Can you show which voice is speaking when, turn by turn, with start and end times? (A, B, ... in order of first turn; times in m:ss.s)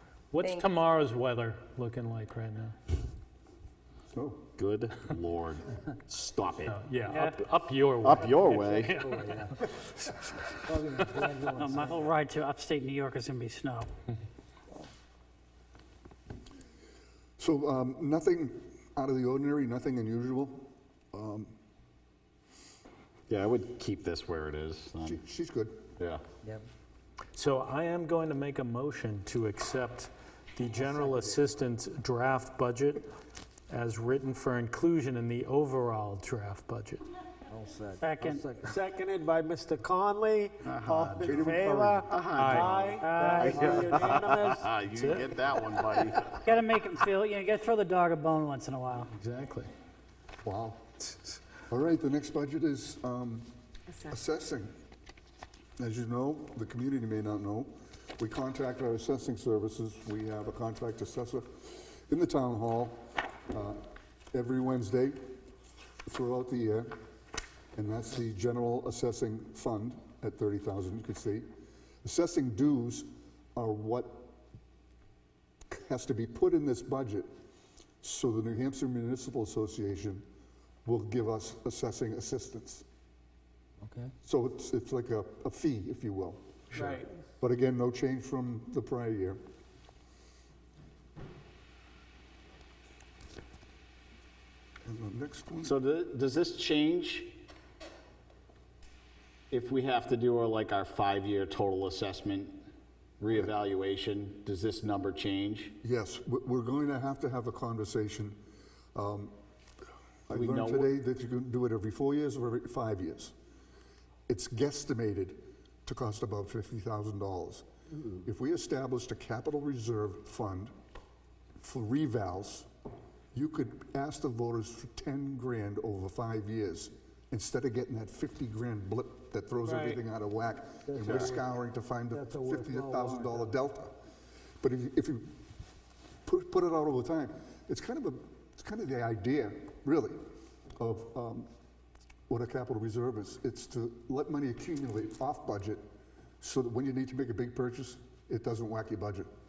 0:00.3-0:02.8 A
0:04.1-0:04.5 B
0:04.6-0:06.9 C
0:06.7-0:11.3 A
0:07.1-0:07.4 D
0:08.0-0:09.0 C
0:09.0-0:09.6 E
0:10.7-0:12.1 E
0:11.6-0:13.9 D
0:17.4-0:21.6 B
0:23.3-0:25.2 C
0:25.0-0:25.9 B
0:27.4-0:33.0 A
0:33.7-0:37.0 A
0:37.5-0:38.8 E
0:38.0-0:38.5 D
0:38.6-0:45.3 F
0:41.2-0:42.1 B
0:42.1-0:43.0 C
0:42.3-0:42.7 A
0:43.0-0:43.6 D
0:43.4-0:43.9 E
0:43.5-0:43.8 A
0:43.6-0:46.5 C
0:46.4-0:49.1 D
0:49.1-0:49.7 A
0:50.4-0:50.9 B
0:51.7-0:54.7 B
0:55.8-1:03.8 B
1:04.3-1:05.4 B
1:06.1-1:07.0 B
1:07.8-1:11.5 B
1:12.0-1:14.4 B
1:15.7-1:17.3 B
1:18.0-1:20.2 B
1:20.8-1:22.8 B
1:23.8-1:24.1 E
1:24.2-1:26.8 B
1:26.7-1:27.1 F
1:27.4-1:29.4 B
1:34.8-1:35.8 B
1:35.6-1:37.3 C
1:39.5-1:42.6 C
1:43.2-1:45.8 C
1:45.8-1:48.4 B
1:49.0-1:49.3 B
1:50.3-1:53.3 B
1:50.3-1:50.9 C
1:54.3-1:57.7 B
1:58.2-2:00.7 B
2:01.6-2:02.7 B
2:03.3-2:14.0 B
2:09.6-2:10.0 F
2:10.9-2:11.4 E
2:12.1-2:13.5 E
2:14.6-2:15.4 B
2:16.2-2:20.2 B
2:20.8-2:21.5 B
2:22.3-2:25.8 B
2:26.4-2:29.3 B